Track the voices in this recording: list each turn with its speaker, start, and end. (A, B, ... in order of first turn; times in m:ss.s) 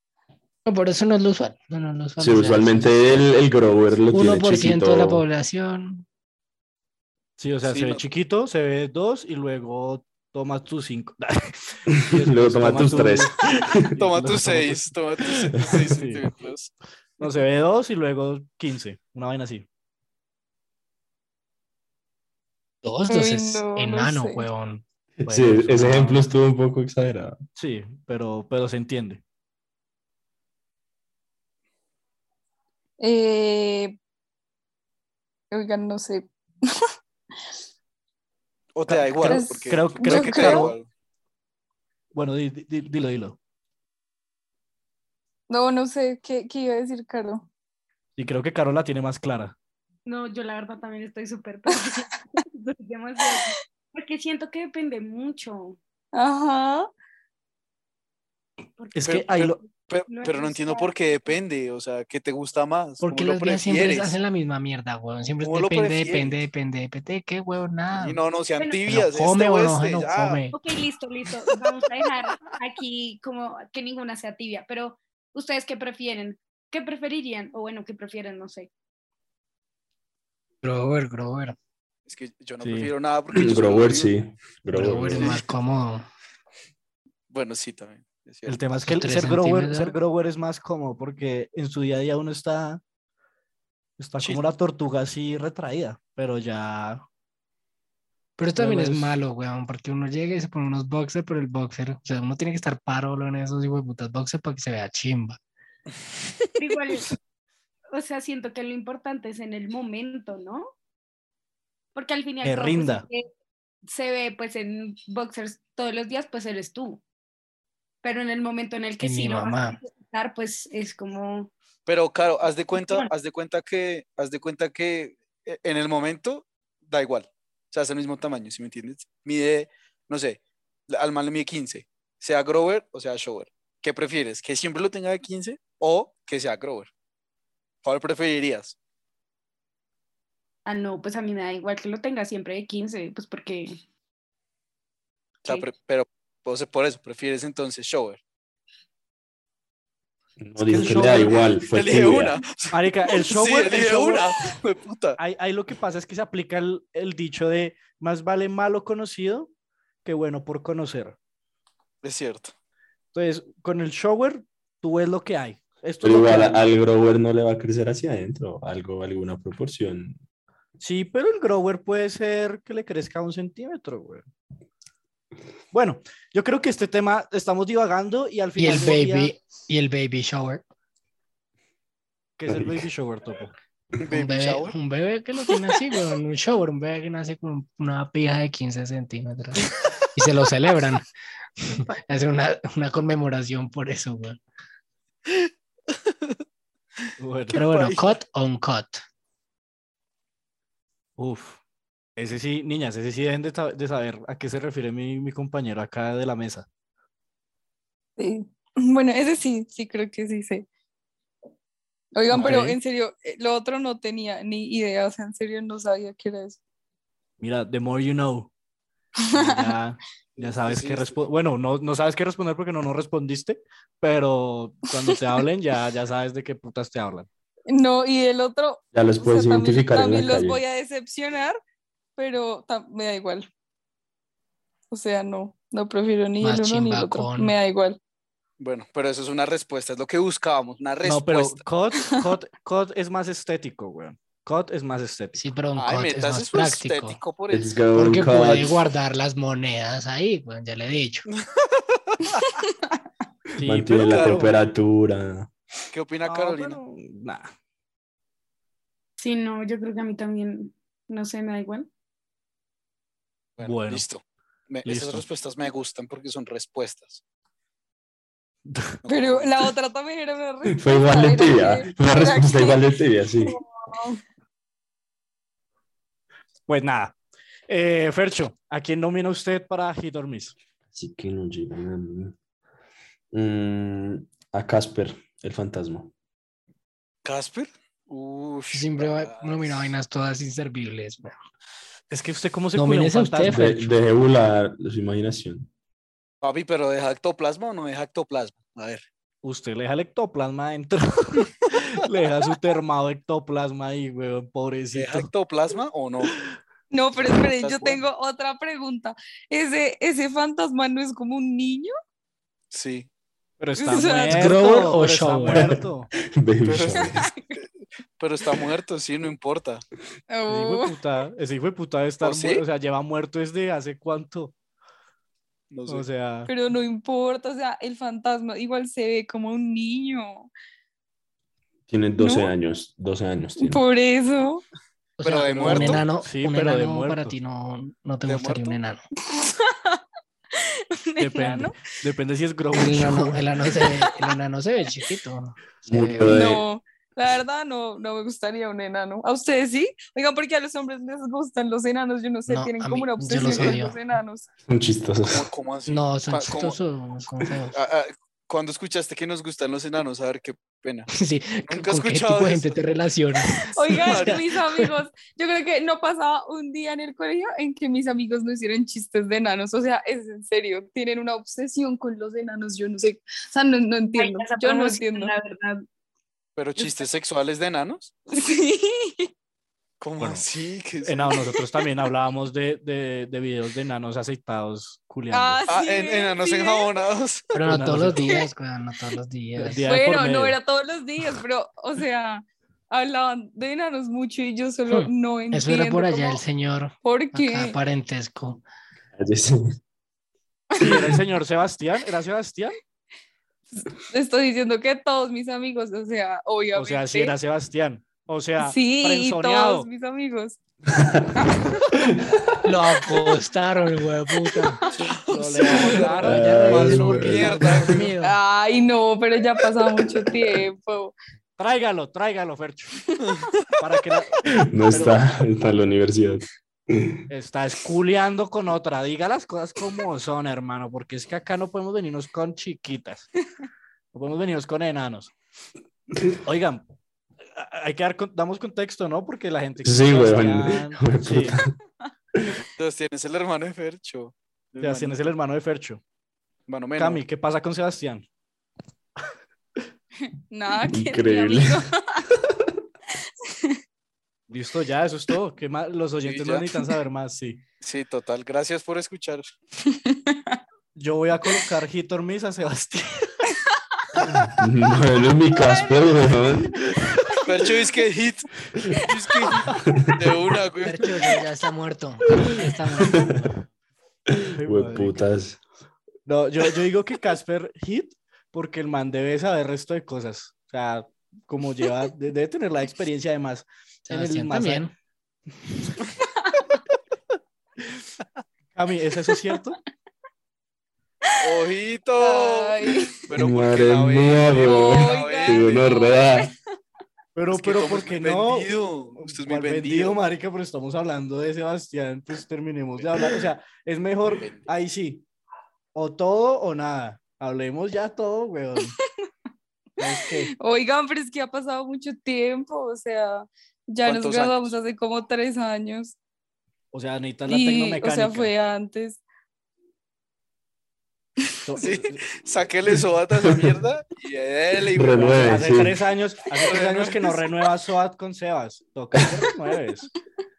0:00.6-0:03.0 A
0:02.2-0:05.2 B
0:04.1-0:06.0 A
0:07.4-0:13.4 C
0:07.6-0:08.0 D
0:11.9-0:14.0 B
0:13.9-0:16.7 D
0:14.0-0:14.9 C
0:15.2-0:15.9 B
0:15.6-0:16.2 C
0:17.2-0:19.6 C
0:22.8-0:24.8 A
0:23.1-0:24.5 E
0:25.2-0:27.4 B
0:25.3-0:26.2 C
0:27.6-0:29.2 C
0:33.0-0:34.0 E
0:35.5-0:36.9 E
0:38.7-0:40.9 D
0:38.9-0:40.7 C
0:39.2-0:40.8 E
0:42.1-0:43.4 C
0:45.5-0:47.5 E
0:48.2-0:49.5 C
0:50.0-0:55.8 F
0:53.2-0:53.6 E
0:56.1-0:56.9 E
0:58.8-0:59.5 F
0:58.9-0:59.6 C
0:59.0-1:04.2 D
1:00.1-1:01.2 F
1:03.0-1:08.2 A
1:05.4-1:06.4 D
1:07.9-1:10.4 D
1:08.8-1:10.6 A
1:10.5-1:18.7 F
1:20.6-1:21.6 A
1:22.1-1:24.1 D
1:22.6-1:22.9 C
1:23.3-1:25.4 B
1:24.7-1:26.0 A
1:27.3-1:28.6 D
1:28.4-1:32.8 C
1:28.8-1:30.0 A
1:34.0-1:37.0 C
1:38.4-1:45.4 A
1:38.6-1:39.2 C
1:46.6-1:47.1 F
1:47.9-1:50.7 F
1:51.9-1:53.3 F
1:52.4-1:53.1 C
1:53.8-1:57.0 F
1:58.0-2:01.5 F
1:59.0-1:59.8 A
2:01.8-2:16.9 D
2:02.7-2:03.1 F
2:17.8-2:18.7 D
2:20.6-2:23.8 F
2:25.4-2:28.2 D
2:30.4-2:32.4 B
2:30.7-2:31.4 C
2:31.0-2:35.2 D
2:32.7-2:34.3 C
2:35.2-2:39.5 C
2:40.0-2:41.2 C
2:42.0-2:42.5 D
2:43.1-2:46.7 C
2:46.0-2:50.2 B
2:50.8-2:54.2 C
2:55.7-2:59.3 C
2:58.6-3:00.6 A
3:02.4-3:03.5 C
3:04.0-3:04.7 D
3:04.1-3:11.0 A
3:11.6-3:14.4 A
3:15.3-3:16.4 D
3:17.2-3:17.6 C
3:17.5-3:18.1 D
3:17.5-3:19.0 A
3:21.2-3:21.6 C
3:22.2-3:26.6 C
3:28.2-3:30.6 E
3:32.1-3:36.6 E
3:32.3-3:32.8 C
3:37.4-3:38.5 C
3:39.2-3:39.7 E
3:39.3-3:47.3 C
3:40.4-3:41.2 D
3:45.0-3:45.4 E
3:47.7-3:51.6 E
3:48.9-3:50.6 B
3:52.2-3:53.5 E
3:54.9-3:58.0 E
3:56.4-3:57.5 A
3:58.6-4:01.6 D
4:01.0-4:05.4 C
4:05.3-4:07.2 A
4:05.8-4:07.8 D
4:07.5-4:08.8 B
4:07.9-4:11.3 A
4:11.3-4:12.5 D
4:13.6-4:14.6 C
4:13.6-4:15.5 B
4:13.9-4:14.5 D
4:15.9-4:16.8 D
4:16.2-4:17.5 C
4:19.2-4:21.9 F
4:23.6-4:27.2 D
4:23.6-4:24.0 C
4:24.8-4:25.2 C
4:28.7-4:29.0 C
4:29.0-4:29.7 D
4:29.1-4:32.8 E
4:30.7-4:33.6 B
4:33.4-4:34.2 E
4:36.7-4:37.1 C
4:37.7-4:40.5 C
4:40.9-4:42.4 B
4:43.3-4:46.1 B
4:47.2-4:49.9 D
4:48.7-4:51.4 A
4:52.1-4:53.7 C
4:52.7-4:53.9 A
4:53.5-4:55.7 B
4:56.4-4:59.0 D
4:59.4-5:05.3 C
5:04.9-5:06.3 D
5:06.9-5:11.9 E
5:07.2-5:08.0 D
5:12.7-5:13.1 D
5:13.6-5:16.1 C
5:13.8-5:14.6 E
5:14.3-5:15.7 A
5:15.5-5:17.2 B
5:16.6-5:17.1 D
5:17.0-5:17.6 E
5:18.2-5:19.8 D
5:20.3-5:21.0 E
5:20.5-5:24.5 C
5:22.2-5:22.6 D
5:25.7-5:26.0 D
5:25.9-5:26.5 C
5:26.5-5:30.5 E
5:31.9-5:33.8 B
5:32.2-5:32.5 E
5:33.6-5:34.6 E
5:35.2-5:39.0 A
5:35.2-5:36.0 D
5:35.5-5:37.3 C
5:38.3-5:38.8 D
5:39.3-5:40.0 E
5:40.5-5:41.8 E
5:41.2-5:43.5 C
5:42.7-5:46.3 A
5:45.9-5:46.6 B
5:46.2-5:54.5 E
5:52.5-5:54.0 A
5:53.3-5:53.6 D
5:54.7-5:55.5 B
5:55.3-5:56.8 D
5:55.9-5:57.8 A
5:57.7-6:01.1 D
6:01.1-6:04.9 A
6:01.7-6:02.8 D
6:03.6-6:15.3 E
6:04.0-6:04.4 D
6:14.2-6:15.8 F
6:16.6-6:18.1 D
6:18.3-6:19.3 E
6:20.0-6:21.4 D
6:20.2-6:20.4 C
6:21.0-6:25.6 C
6:21.5-6:21.8 E
6:25.3-6:26.9 E
6:25.7-6:27.5 D
6:27.5-6:29.8 A
6:27.6-6:28.3 C
6:28.2-6:28.5 E
6:29.6-6:30.6 C
6:29.8-6:36.4 E
6:34.9-6:38.6 A
6:37.0-6:37.8 E
6:39.1-6:39.8 B
6:40.7-6:41.0 E
6:40.8-6:42.7 C
6:43.7-6:47.4 E
6:46.7-6:49.9 C
6:48.6-6:50.6 E
6:50.9-6:51.5 B
6:52.0-6:52.4 B
6:52.6-6:54.8 A
6:54.9-6:55.2 E
6:54.9-6:56.2 D
6:55.1-6:57.9 C
6:55.7-6:58.4 A
6:56.2-6:57.7 B
6:56.9-6:58.1 D
6:58.2-7:01.1 E
7:01.6-7:03.0 C
7:03.8-7:05.3 C
7:04.5-7:07.2 B
7:07.3-7:13.3 C
7:14.1-7:15.3 C
7:16.3-7:16.8 C
7:17.5-7:21.6 C
7:19.8-7:21.7 B
7:22.8-7:25.2 D
7:24.8-7:26.0 C
7:26.7-7:27.2 D
7:27.0-7:28.2 C
7:30.5-7:32.2 E
7:30.8-7:31.8 B
7:33.2-7:33.8 E
7:34.5-7:37.6 C
7:36.2-7:36.8 D
7:37.8-7:39.4 D
7:39.8-7:40.6 E
7:40.9-7:43.4 C
7:44.2-7:46.7 B
7:45.6-7:46.3 E
7:46.8-7:47.4 C
7:47.4-7:51.3 D
7:49.9-7:50.2 B
7:50.8-7:53.3 A
7:54.3-7:55.6 B
7:54.5-7:55.2 C
7:56.2-8:04.9 C
8:04.1-8:04.9 A
8:05.7-8:05.9 C
8:08.7-8:09.8 C
8:11.4-8:16.1 D
8:12.2-8:13.2 E
8:13.3-8:16.5 B
8:14.6-8:16.5 E
8:17.3-8:25.2 C
8:17.5-8:20.2 D
8:24.4-8:24.7 D
8:25.9-8:28.9 C
8:30.0-8:30.5 C
8:30.0-8:36.2 E
8:34.0-8:34.8 D
8:36.9-8:38.5 C
8:37.5-8:39.2 E
8:41.6-8:42.4 C
8:41.8-8:45.6 D
8:44.9-8:46.0 B
8:45.1-8:50.1 C
8:46.6-8:47.5 D